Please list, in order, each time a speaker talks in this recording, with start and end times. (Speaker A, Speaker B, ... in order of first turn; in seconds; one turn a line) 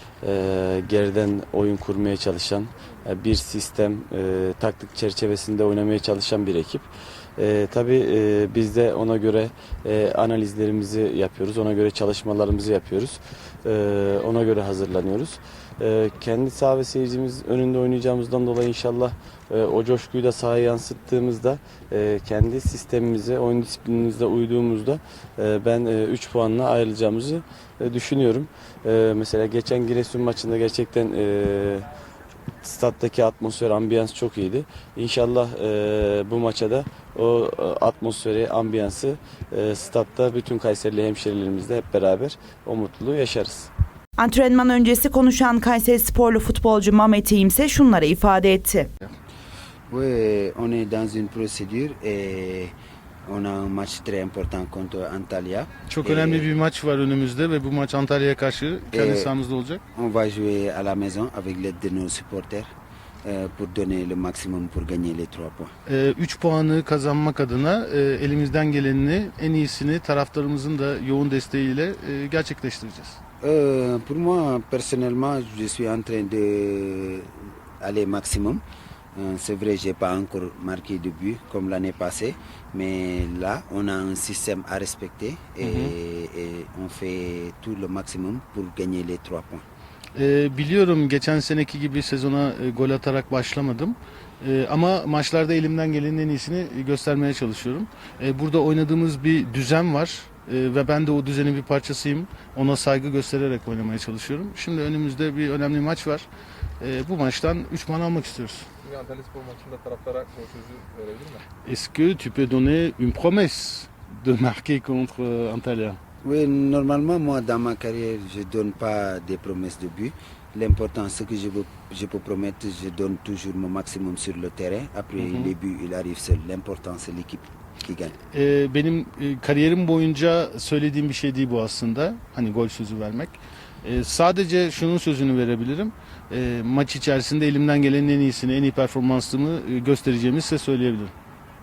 Speaker A: 0.2-31.9
Speaker A: 32.6-43.7
Speaker B: 44.2-48.9
Speaker C: 49.9-52.7
Speaker C: 53.2-56.5
Speaker D: 55.9-59.8
Speaker C: 58.9-59.3
Speaker C: 59.9-62.7
Speaker C: 63.2-65.7
Speaker D: 65.8-73.2
Speaker C: 73.4-78.6
Speaker C: 79.1-89.6
Speaker D: 85.6-85.9
Speaker D: 90.1-106.2
Speaker D: 106.8-108.7
Speaker E: 108.8-111.4
Speaker D: 111.6-116.0
Speaker C: 116.2-128.2
Speaker D: 125.2-125.5
Speaker D: 128.3-141.1